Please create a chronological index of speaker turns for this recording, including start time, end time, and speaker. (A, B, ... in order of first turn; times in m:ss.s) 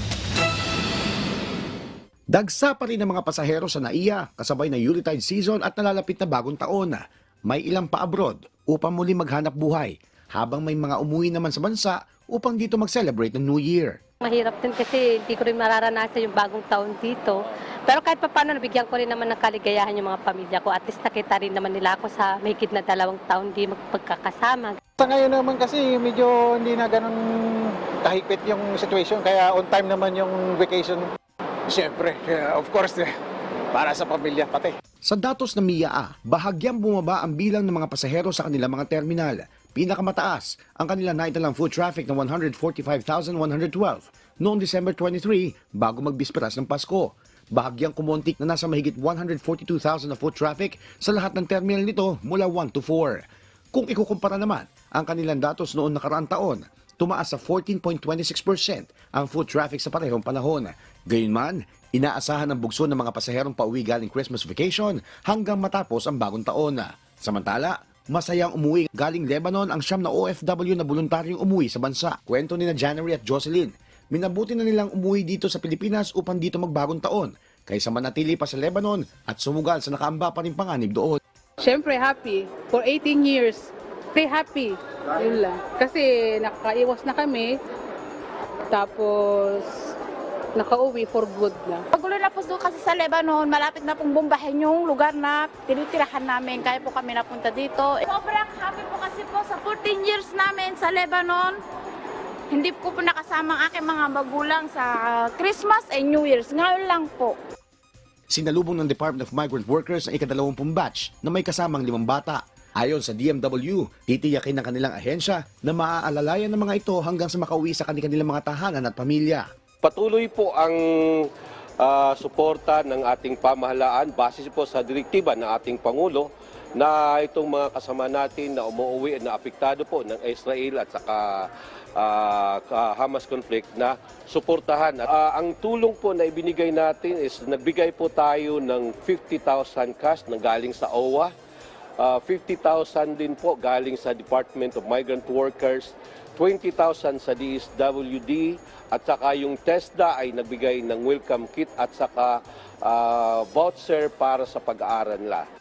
0:02.3-0:14.0 A
0:14.2-0:24.8 B
0:25.0-0:31.1 C
0:31.7-0:33.1 C
0:33.7-0:34.8 C
0:35.0-1:21.2 A
1:21.6-1:27.6 D
1:28.7-1:29.9 D
1:30.6-1:31.8 D
1:31.9-1:41.6 E
1:42.5-1:47.4 E
1:48.3-1:59.4 A
1:59.8-2:01.3 F
2:01.8-2:21.3 F
2:22.0-2:35.4 F